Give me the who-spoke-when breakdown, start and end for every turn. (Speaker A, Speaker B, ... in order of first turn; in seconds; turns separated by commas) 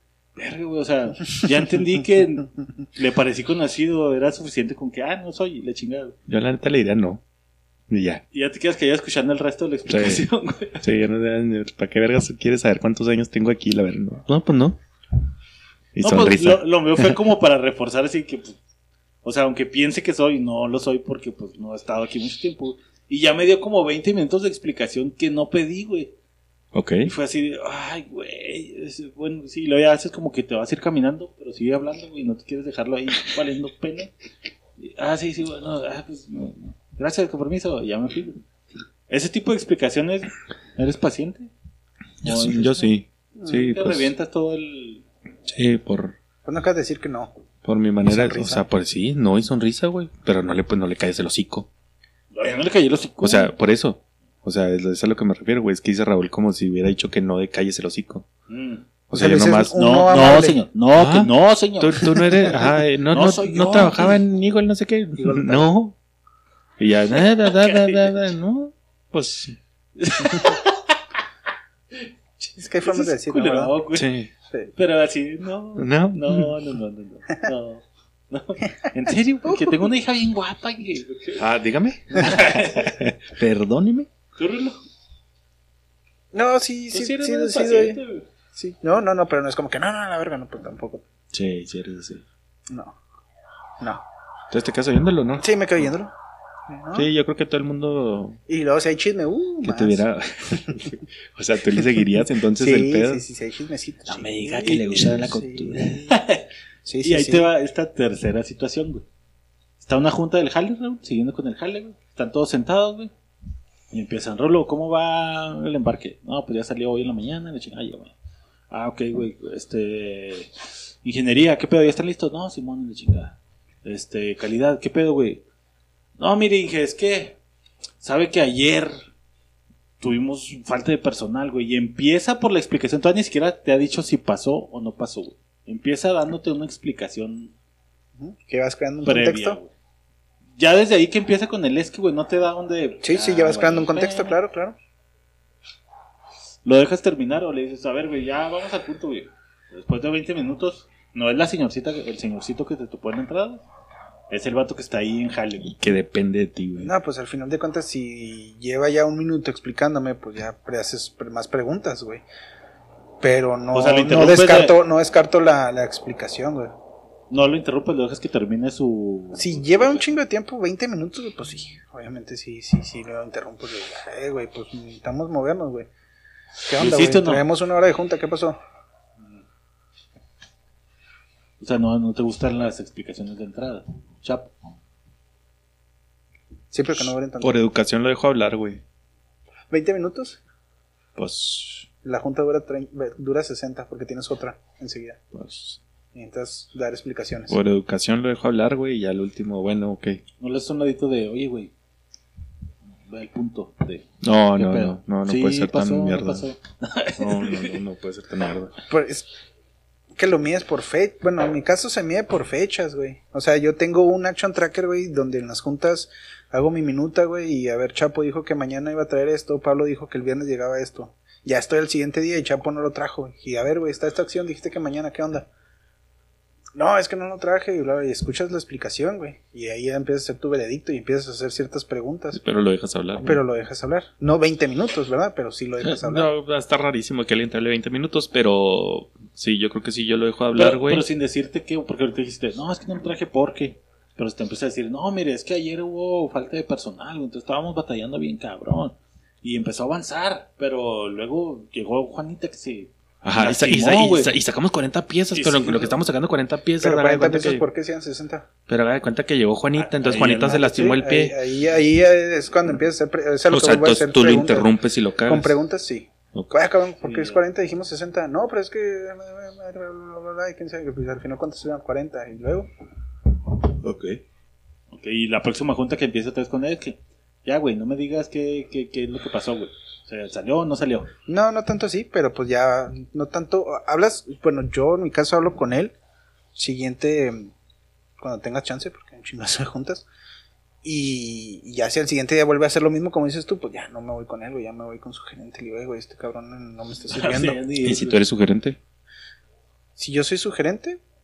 Speaker A: 0.3-6.1, Speaker B: 6.3-7.2, Speaker B: 7.9-8.2, Speaker A: 8.3-10.8, Speaker B: 9.9-10.2, Speaker B: 10.8-14.8, Speaker B: 15.9-17.2, Speaker A: 16.0-18.6, Speaker A: 19.2-26.1, Speaker B: 26.7-27.1, Speaker A: 27.0-34.1, Speaker A: 34.8-38.4, Speaker A: 39.1-41.5, Speaker A: 42.2-42.9, Speaker B: 42.2-44.1, Speaker A: 43.5-45.0, Speaker B: 45.5-46.1, Speaker C: 46.4-47.3, Speaker B: 47.6-51.7, Speaker C: 48.0-48.6, Speaker A: 52.3-53.5, Speaker B: 53.2-58.2, Speaker A: 58.5-58.9, Speaker B: 59.1-59.9, Speaker C: 59.1-60.6, Speaker A: 59.7-62.5, Speaker B: 60.9-65.9, Speaker A: 63.1-64.2, Speaker C: 65.2-65.7, Speaker B: 66.8-69.5, Speaker A: 67.1-68.2, Speaker A: 70.0-71.0, Speaker A: 71.9-74.1, Speaker C: 72.6-73.7, Speaker B: 73.9-74.3, Speaker A: 74.7-81.5, Speaker B: 75.8-76.5, Speaker C: 79.4-79.8, Speaker B: 81.4-84.1, Speaker A: 82.1-83.0, Speaker A: 84.4-84.8, Speaker C: 86.3-88.0, Speaker A: 86.9-88.3, Speaker C: 88.5-91.0, Speaker B: 91.3-92.2, Speaker C: 92.7-92.9, Speaker B: 94.5-95.5, Speaker C: 95.4-96.1, Speaker C: 96.7-97.1, Speaker B: 96.9-98.4, Speaker C: 98.5-100.8, Speaker B: 99.6-103.2, Speaker C: 101.8-102.0, Speaker C: 102.6-106.2, Speaker B: 104.1-106.1, Speaker A: 104.6-105.3, Speaker A: 106.0-106.5, Speaker C: 106.8-107.5, Speaker A: 107.0-109.0, Speaker A: 109.8-113.1, Speaker A: 113.9-118.1, Speaker A: 118.7-120.5, Speaker A: 121.0-125.4, Speaker A: 126.2-127.4, Speaker A: 128.0-129.0, Speaker A: 130.0-137.5, Speaker C: 138.2-139.6, Speaker A: 139.0-139.7, Speaker A: 140.6-144.4, Speaker C: 143.0-144.8, Speaker A: 146.6-153.6, Speaker A: 154.3-155.9, Speaker B: 155.6-156.9, Speaker C: 156.8-162.2, Speaker C: 163.2-166.7, Speaker A: 163.7-164.8, Speaker A: 167.3-170.0, Speaker C: 169.3-175.9, Speaker C: 176.7-178.6, Speaker A: 176.8-177.4, Speaker A: 181.6-184.5, Speaker C: 186.7-187.6, Speaker B: 187.4-188.8, Speaker C: 189.7-190.4, Speaker B: 191.2-191.9, Speaker C: 192.0-195.2, Speaker B: 195.3-195.8, Speaker C: 196.1-197.6, Speaker B: 197.5-200.2, Speaker A: 200.4-201.7, Speaker A: 203.1-207.8, Speaker B: 204.2-206.4, Speaker B: 207.2-208.7, Speaker C: 208.9-209.3, Speaker C: 210.2-225.5, Speaker C: 226.8-232.4, Speaker B: 232.3-233.4, Speaker C: 233.2-236.3, Speaker B: 235.8-241.1, Speaker A: 240.5-254.3, Speaker B: 253.2-257.6, Speaker A: 255.3-256.0, Speaker C: 256.8-258.5, Speaker B: 258.7-261.4, Speaker C: 259.8-264.7, Speaker A: 259.9-260.8, Speaker B: 263.5-265.5, Speaker C: 265.2-272.7, Speaker A: 267.0-267.4, Speaker B: 273.8-274.2, Speaker A: 274.9-281.1, Speaker C: 281.3-285.9, Speaker C: 286.5-287.5, Speaker C: 288.2-290.1, Speaker C: 290.8-297.6, Speaker A: 297.1-298.2, Speaker B: 297.8-298.8, Speaker C: 300.0-301.0